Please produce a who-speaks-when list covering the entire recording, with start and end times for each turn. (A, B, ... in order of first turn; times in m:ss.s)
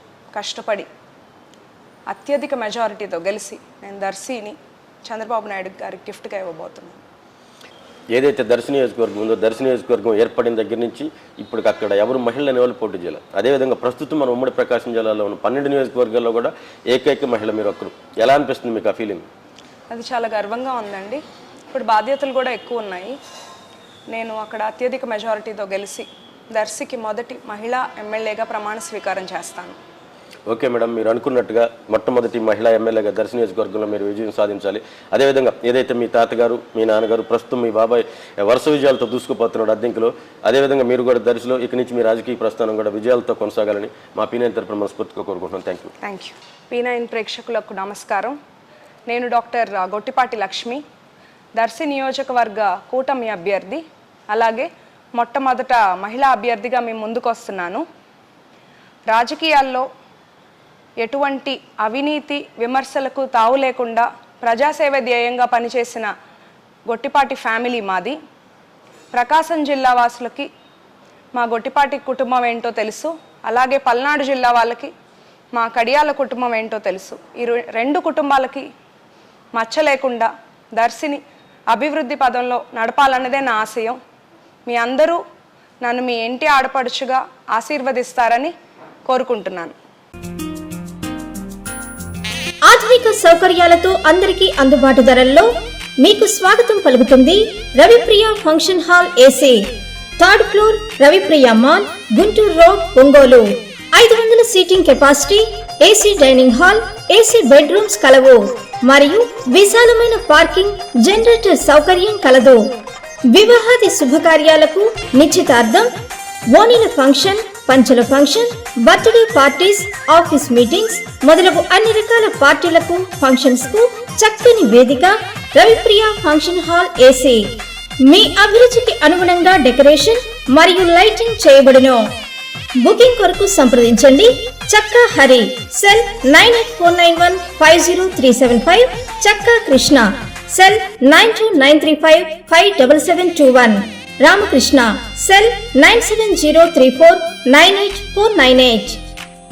0:00.3-0:00.9 A
0:02.1-0:07.0 A
0:08.1-0:19.3 B
0:19.9-0:23.2 A
0:24.1-0:29.8 A
0:30.5-0:45.9 B
0:46.0-0:48.3 A
0:49.1-0:50.8 A
0:51.6-0:57.8 A
0:59.1-0:59.8 A
1:01.0-1:06.1 A
1:06.9-1:08.2 A
1:09.1-1:10.5 A
1:11.3-1:14.9 A
1:15.5-1:18.6 A
1:19.5-1:24.0 A
1:24.6-1:25.2 A
1:25.8-1:28.5 A
1:29.0-1:29.8 A
1:32.6-1:35.5 C
1:36.0-1:52.6 C
1:53.3-1:55.9 C
1:56.5-2:12.0 C
2:12.8-2:29.0 C